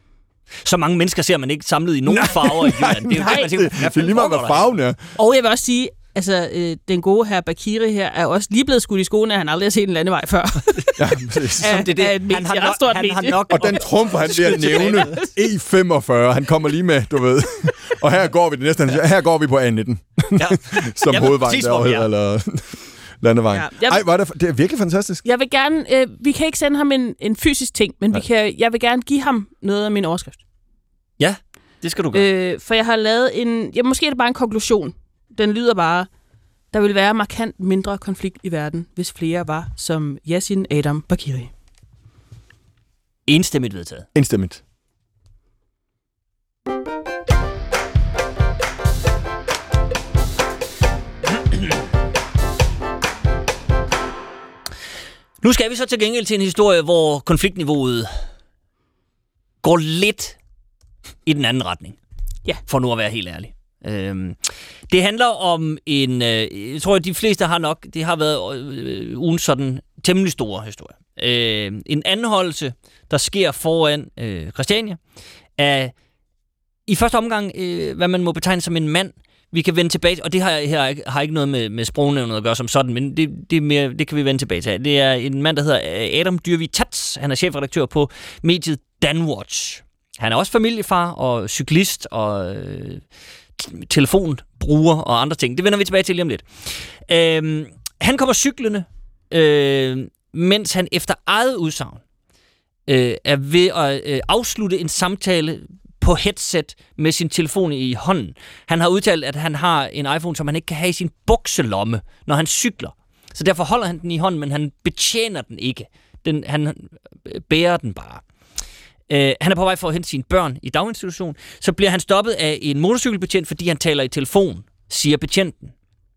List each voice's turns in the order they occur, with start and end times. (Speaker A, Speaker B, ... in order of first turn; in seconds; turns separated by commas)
Speaker A: 0.7-4.7, Speaker B: 2.1-5.0, Speaker C: 3.1-3.5, Speaker C: 5.2-11.1, Speaker B: 11.0-11.8, Speaker C: 11.6-15.3, Speaker A: 11.6-15.2, Speaker B: 13.5-25.2, Speaker A: 20.4-22.1, Speaker C: 23.5-24.0, Speaker C: 25.2-30.4, Speaker A: 31.2-32.3, Speaker C: 32.1-36.1, Speaker C: 36.7-41.5, Speaker A: 43.3-44.1, Speaker B: 44.1-44.6, Speaker A: 55.4-58.1, Speaker A: 59.6-60.4, Speaker A: 61.3-62.0, Speaker A: 62.7-64.4, Speaker A: 64.9-75.0, Speaker A: 75.6-75.9, Speaker A: 76.9-93.0, Speaker A: 93.6-102.0, Speaker A: 102.9-118.2, Speaker A: 119.1-125.7